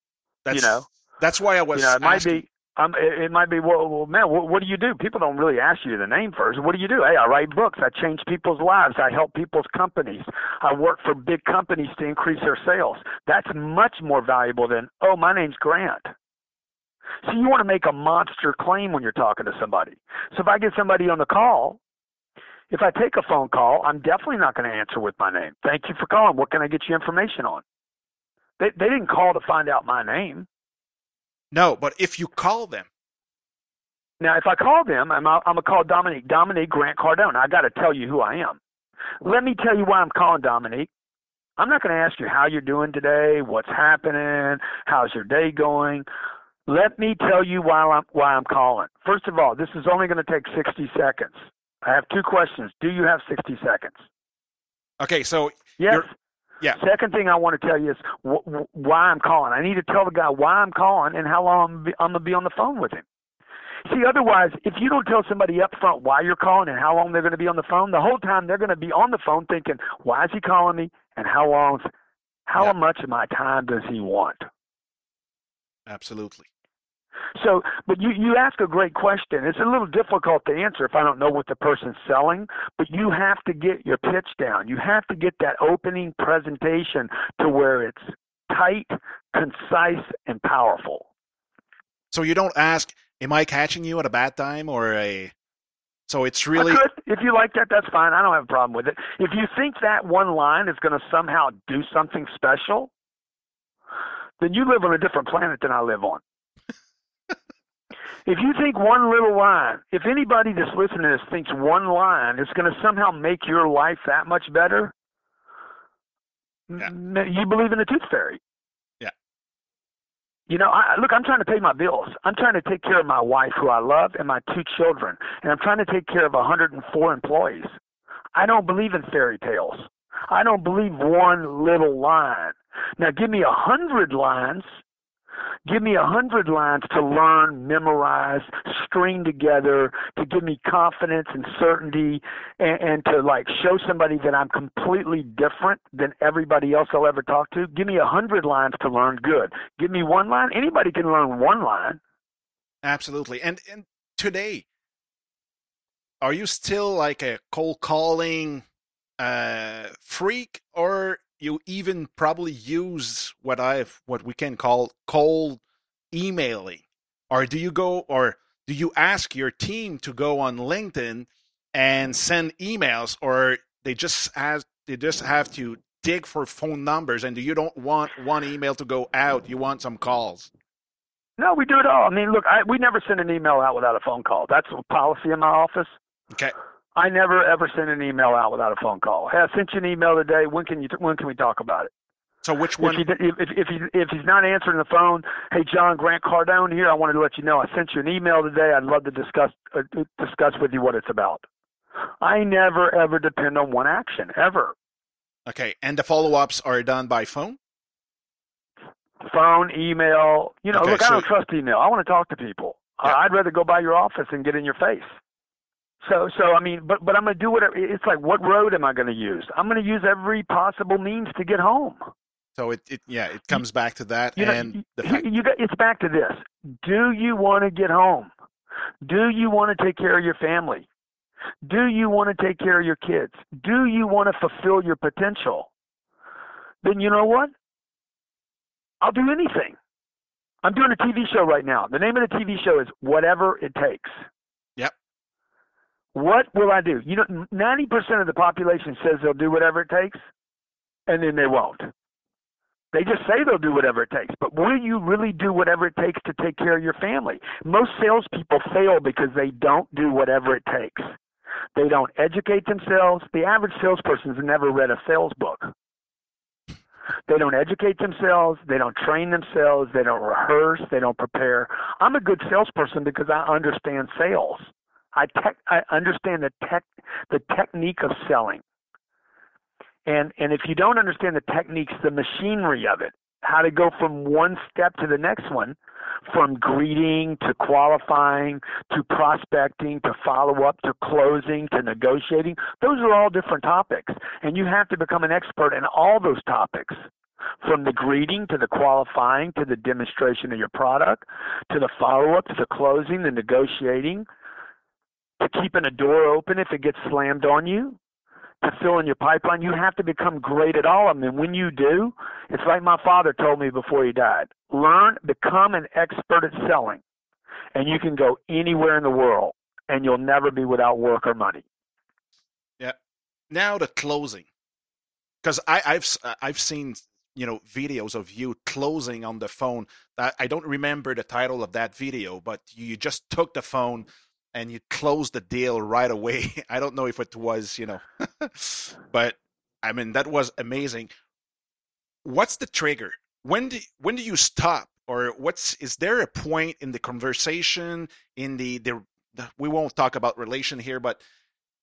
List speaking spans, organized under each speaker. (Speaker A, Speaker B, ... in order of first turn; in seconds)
Speaker A: 0.4-2.4, 31.5-32.9, 55.0-56.1, 75.9-76.5, 92.1-95.3, 96.1-96.8, 152.8-154.6, 156.2-158.6, 159.2-165.6, 166.1-180.5, 192.4-193.0, 205.5-207.6, 210.7-211.2, 222.6-225.2, 323.5-324.4, 325.4-341.1, 342.2-351.2
Speaker B: 0.5-0.9, 1.7-16.1, 17.2-21.8, 22.7-27.6, 28.6-30.5, 34.2-38.6, 39.2-40.9, 41.6-46.0, 46.7-54.0, 55.8-56.1, 56.7-63.0, 63.8-71.9, 72.5-74.5, 77.3-91.1, 96.5-102.9, 104.4-106.2, 108.2-114.9, 116.7-118.4, 120.5-127.7, 128.3-134.7, 135.7-152.0, 181.4-185.9, 186.9-191.9, 192.8-201.4, 202.2-204.7, 209.2-215.1, 216.0-222.0, 224.4-228.3, 229.0-230.8, 231.6-235.7, 236.8-237.5, 239.0-239.8, 240.6-244.1, 246.1-250.2, 251.1-251.9, 252.9-261.1, 261.7-265.7, 267.3-278.6, 280.1-297.0, 297.6-304.2, 305.4-308.0, 308.6-317.0, 317.7-321.6